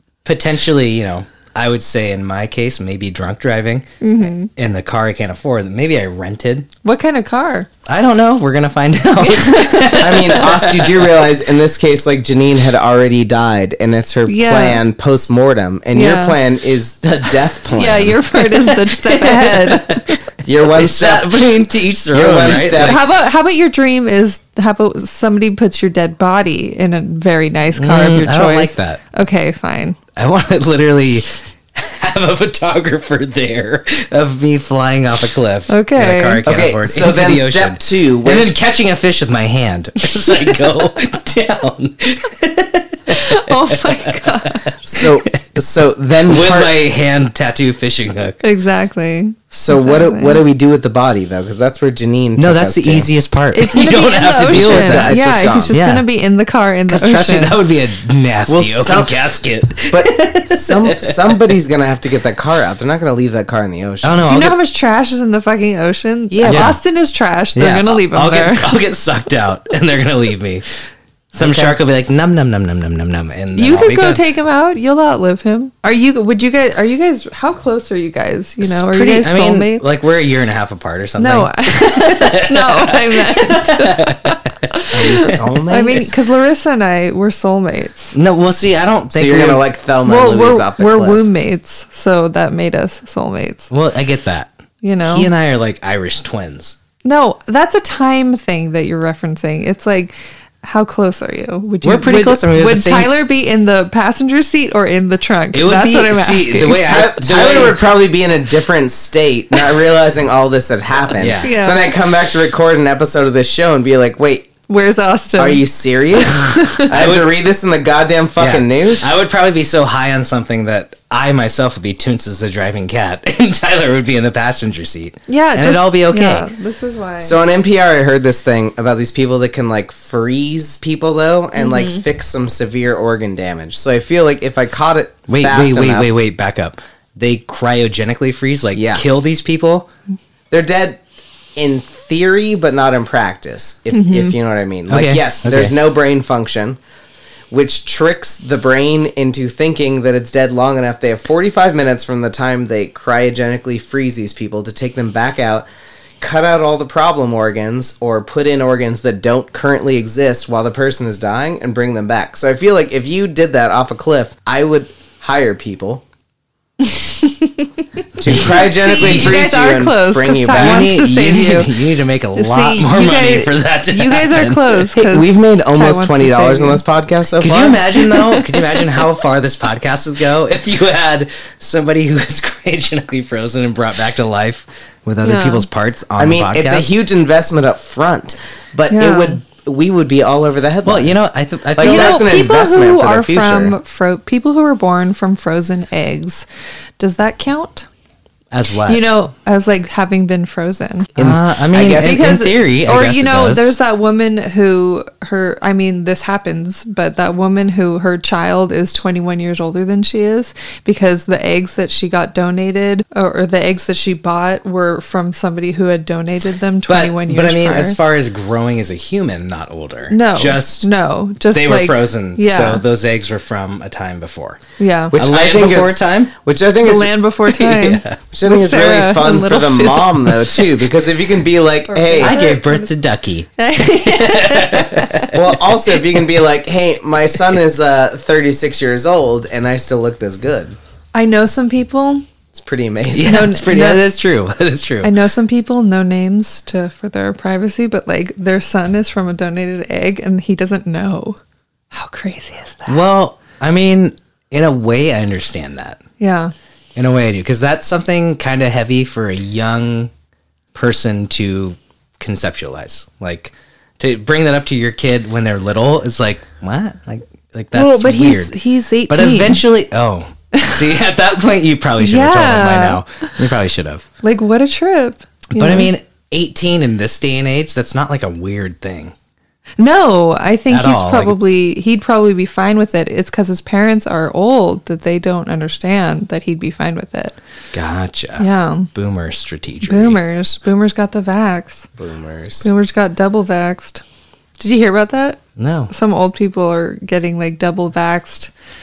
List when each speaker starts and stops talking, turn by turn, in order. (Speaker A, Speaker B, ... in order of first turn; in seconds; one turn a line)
Speaker A: 0.2-6.7
Speaker B: 4.0-4.5
Speaker B: 6.8-7.7
Speaker A: 7.9-11.2
Speaker B: 9.2-10.4
Speaker C: 10.0-18.2
Speaker B: 14.3-14.8
Speaker B: 15.9-16.4
Speaker A: 17.1-23.0
Speaker B: 17.7-20.2
Speaker C: 20.4-23.0
Speaker B: 22.7-30.0
Speaker A: 27.7-29.0
Speaker A: 30.1-45.5
Speaker B: 35.7-36.4
Speaker C: 36.4-38.5
Speaker B: 43.1-44.7
Speaker C: 44.8-46.8
Speaker A: 46.3-48.4
Speaker B: 48.4-50.4
Speaker C: 49.5-53.1
Speaker A: 52.4-56.0
Speaker B: 53.5-57.5
Speaker C: 54.4-55.8
Speaker A: 56.9-61.5
Speaker C: 58.5-59.1
Speaker C: 59.9-64.3
Speaker A: 64.0-64.6
Speaker B: 64.2-68.7
Speaker C: 66.3-66.8
Speaker A: 66.4-66.8
Speaker A: 67.5-70.6
Speaker A: 71.3-74.2
Speaker C: 71.3-71.8
Speaker B: 73.5-79.9
Speaker A: 78.6-86.0
Speaker B: 81.2-88.1
Speaker C: 84.9-86.1
Speaker A: 88.1-89.6
Speaker C: 89.1-91.2
Speaker B: 90.0-93.7
Speaker A: 93.7-96.8
Speaker B: 94.8-95.3
Speaker B: 97.0-106.9
Speaker A: 101.8-103.1
Speaker A: 105.5-107.8
Speaker C: 106.8-114.5
Speaker A: 111.2-111.6
Speaker B: 111.4-111.9
Speaker B: 114.7-116.9
Speaker C: 115.4-119.1
Speaker A: 116.9-117.3
Speaker A: 118.4-126.5
Speaker B: 125.3-127.4
Speaker C: 127.2-136.1
Speaker B: 131.6-132.0
Speaker A: 135.3-139.9
Speaker C: 138.7-139.0
Speaker C: 140.5-141.0
Speaker C: 141.6-146.8
Speaker B: 143.9-144.3
Speaker A: 144.9-145.7
Speaker C: 147.5-155.7
Speaker C: 156.2-166.0
Speaker B: 166.8-167.7
Speaker C: 168.2-170.9
Speaker A: 168.2-169.4
Speaker B: 168.3-171.7
Speaker A: 170.5-174.8
Speaker B: 172.3-176.8
Speaker C: 174.9-177.8
Speaker A: 177.4-186.9
Speaker B: 178.1-178.4
Speaker B: 185.2-185.7
Speaker C: 186.2-193.8
Speaker B: 188.9-189.4
Speaker A: 190.8-192.3
Speaker B: 191.8-196.4
Speaker B: 197.0-197.8
Speaker A: 198.5-199.0
Speaker B: 198.8-201.1
Speaker A: 201.2-203.7
Speaker C: 201.2-202.3
Speaker B: 201.9-218.0
Speaker A: 216.8-220.9
Speaker B: 220.1-222.8
Speaker A: 221.5-224.6
Speaker B: 224.8-225.1
Speaker A: 225.1-226.3
Speaker C: 225.1-227.2
Speaker B: 226.8-230.7
Speaker A: 227.5-228.2
Speaker C: 228.2-232.4
Speaker B: 231.9-232.9
Speaker A: 232.2-235.5
Speaker B: 233.6-235.3
Speaker C: 235.3-240.8
Speaker B: 241.1-242.2
Speaker C: 242.5-243.4
Speaker A: 243.1-245.1
Speaker B: 243.2-244.0
Speaker B: 245.0-251.4
Speaker B: 251.9-253.0
Speaker A: 252.9-256.0
Speaker B: 256.2-256.5
Speaker A: 256.9-260.1
Speaker A: 260.7-268.6
Speaker B: 267.7-269.6
Speaker A: 269.1-274.1
Speaker B: 272.0-273.0
Speaker B: 274.2-275.9
Speaker A: 275.5-279.1
Speaker B: 279.8-287.4
Speaker A: 280.7-281.4
Speaker A: 287.7-290.2
Speaker B: 288.4-288.9
Speaker B: 289.8-291.9
Speaker C: 292.0-292.7
Speaker B: 292.6-294.0
Speaker B: 294.6-295.4
Speaker A: 295.6-295.9
Speaker B: 295.9-298.5